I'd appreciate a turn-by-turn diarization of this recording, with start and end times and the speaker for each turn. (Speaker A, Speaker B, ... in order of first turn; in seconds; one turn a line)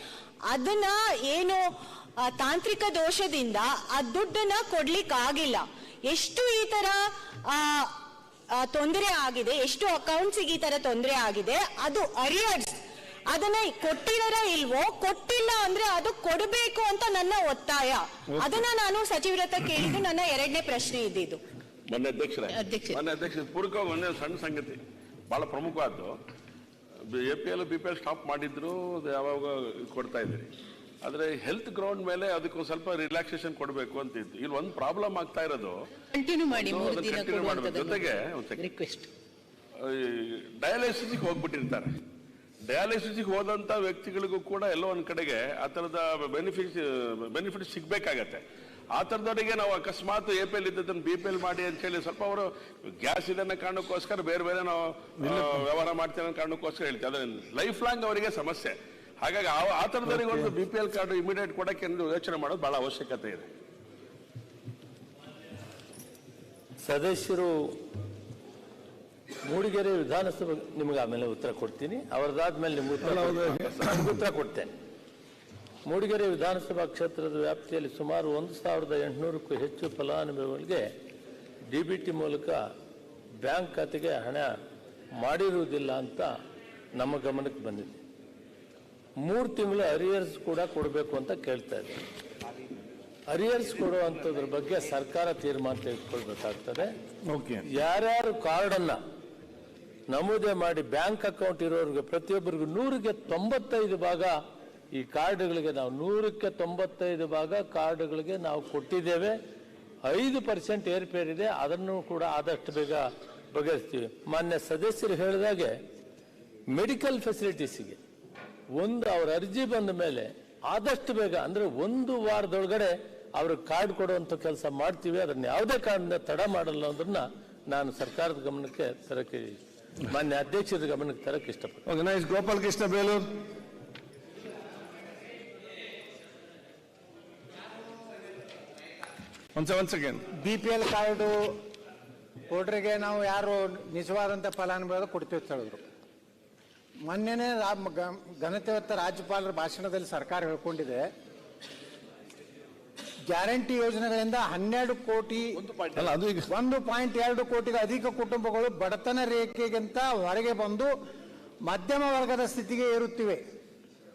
Speaker A: 0.5-1.6
Speaker A: 2.2-7.9
Speaker A: 8.6-21.4
Speaker B: 21.9-26.1
Speaker C: 22.5-23.0
Speaker B: 27.1-30.5
Speaker B: 31.0-35.8
Speaker C: 36.1-39.1
Speaker B: 36.5-38.7
Speaker B: 39.8-41.9
Speaker B: 42.7-48.4
Speaker B: 49.0-63.5
Speaker D: 66.8-67.7
Speaker D: 69.5-74.7
Speaker E: 73.1-73.7
Speaker D: 75.9-80.9
Speaker D: 81.7-82.6
Speaker D: 83.4-84.5
Speaker D: 85.2-86.3
Speaker D: 87.0-88.0
Speaker D: 89.2-92.0
Speaker D: 93.3-96.9
Speaker D: 97.7-99.0
Speaker D: 100.1-104.4
Speaker D: 104.9-109.4
Speaker D: 110.0-115.8
Speaker D: 116.7-118.0
Speaker D: 118.8-131.8
Speaker E: 131.9-133.2
Speaker E: 139.6-140.2
Speaker F: 140.4-141.4
Speaker F: 142.5-145.8
Speaker F: 147.1-151.1
Speaker F: 153.3-155.5
Speaker B: 155.7-156.1
Speaker E: 156.0-156.5
Speaker F: 156.5-160.9
Speaker F: 161.7-163.4